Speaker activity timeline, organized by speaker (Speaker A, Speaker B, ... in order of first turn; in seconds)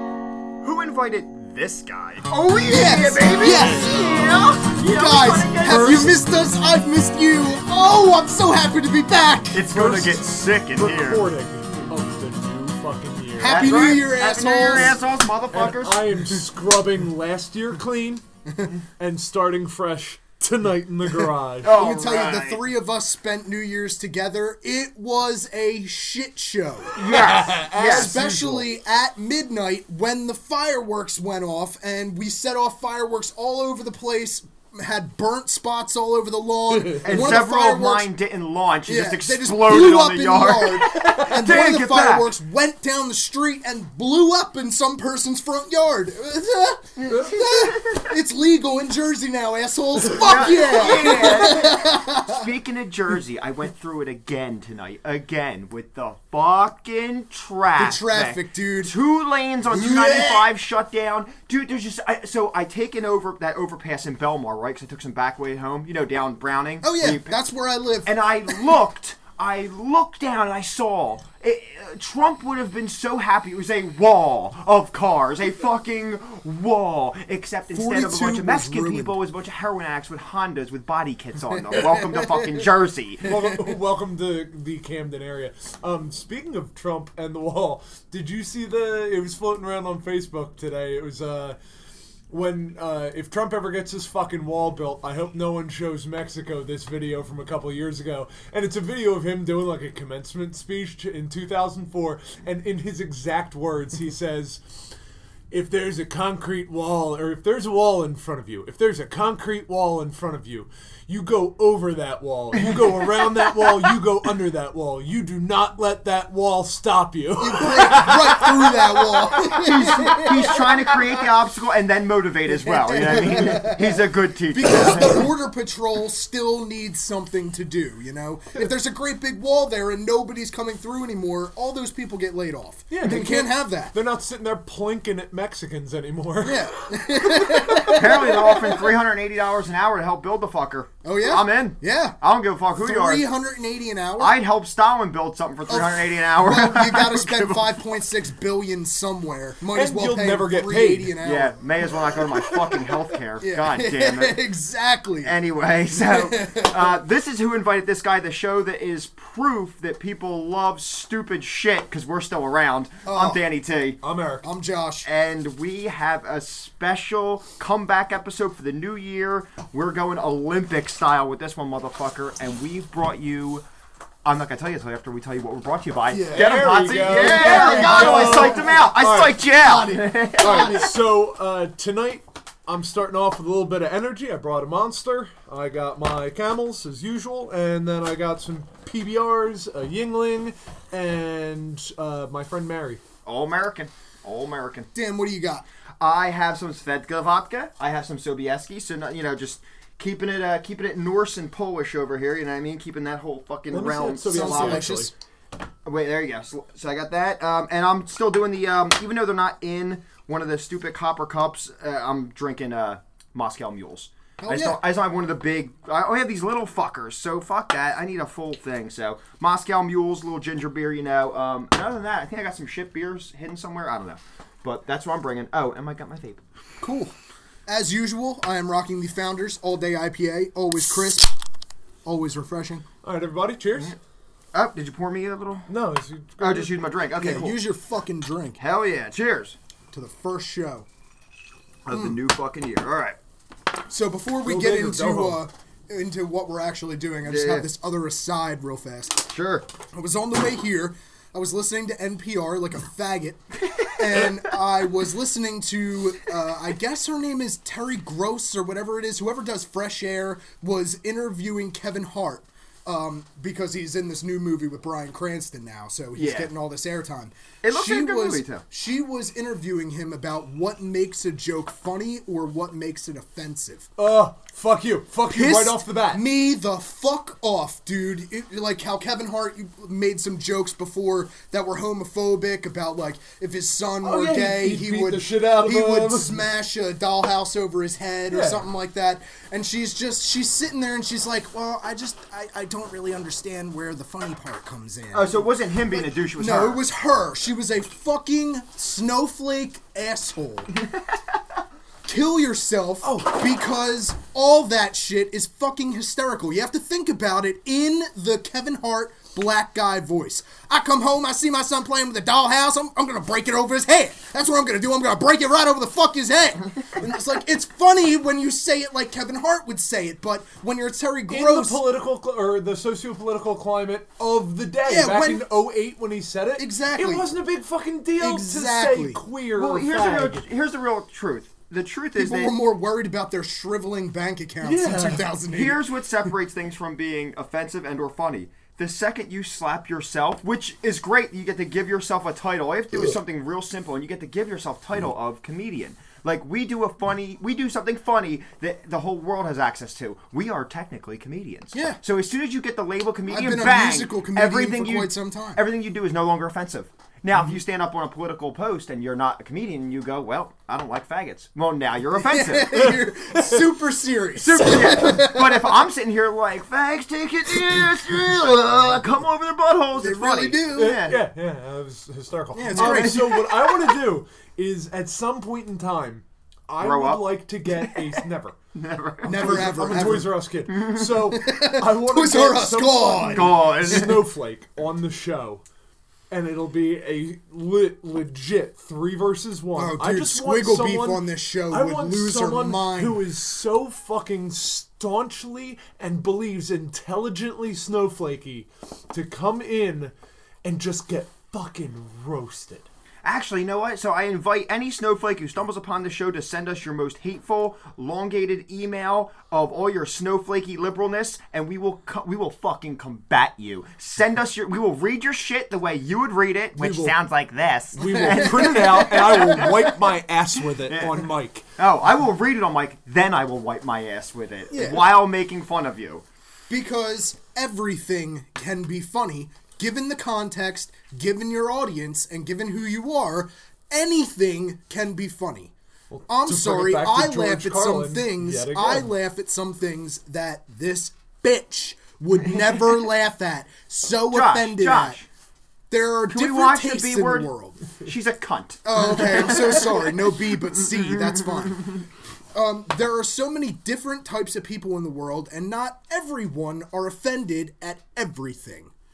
Speaker A: 0.6-6.1, 9.5-11.3, 13.4-16.0, 21.6-22.6, 27.0-28.1, 37.0-42.3, 47.0-48.1, 50.1-67.4, 68.1-83.3, 119.5-125.3, 137.9-143.3, 144.2-147.8, 151.2-154.4, 155.2-164.0, 165.1-173.7, 174.2-180.9, 193.2-194.9, 196.0-204.9, 205.8-226.4, 234.5-235.7, 236.4-237.6, 238.6-239.6, 241.9-243.2, 247.2-247.7, 249.3-249.7, 253.8-254.3, 266.2-266.5, 267.6-268.6, 295.1-296.8, 329.6-332.5, 335.5-362.9, 364.4-371.2, 372.8-373.2, 376.8-378.1, 378.7-380.1, 380.7-381.1, 383.2-384.3, 403.2-419.7, 420.9-421.2, 421.8-426.2, 444.3-445.2, 446.3-450.1, 451.5-451.9
Speaker B: 2.6-9.6, 13.4-15.0, 21.6-27.1, 27.7-38.1, 38.9-52.5, 57.8-59.0, 59.7-60.5, 66.8-68.8, 77.7-79.2, 81.6-82.7, 83.2-83.6, 117.4-120.7, 122.5-133.9, 136.4-138.9, 141.0-142.2, 142.8-144.3, 145.7-151.6, 153.4-155.3, 155.9-157.0, 163.1-163.4, 164.4-165.1, 176.1-180.9, 194.9-195.7, 204.3-205.1, 214.4-214.8, 226.8-227.1, 227.7-231.3, 232.1-232.9, 237.2-238.6, 239.9-240.9, 241.9-242.2, 243.9-249.3, 249.9-253.4, 254.0-273.9, 275.3-300.7, 302.1-321.8, 324.9-325.5, 326.6-327.3, 328.2-329.2, 332.1-335.8, 351.7-352.0, 353.3-355.6, 362.1-365.9, 370.0-371.0, 372.6-373.4, 379.2-380.3, 381.3-384.1, 389.8-393.2, 418.0-419.9, 424.7-425.1, 426.7-435.7, 436.3-445.2, 445.9-447.8, 448.9-458.9
Speaker C: 5.6-6.2, 9.7-13.7, 15.5-18.2, 19.0-21.7, 27.0-28.7, 36.8-37.0, 40.9-41.4, 83.2-91.6, 92.3-104.6, 105.5-121.0, 132.9-138.0, 149.7-151.2, 152.2-152.8, 164.0-164.5, 176.3-179.4, 180.4-193.0, 203.7-205.1, 233.0-234.0, 235.7-236.7, 244.4-245.4, 274.0-276.2, 284.0-286.5, 288.3-288.6, 303.0-303.4, 321.3-330.4, 334.6-335.3, 362.7-363.6, 370.7-378.6, 379.3-385.6, 386.3-400.1, 400.6-402.9, 416.8-417.2, 417.9-421.7, 436.1-439.1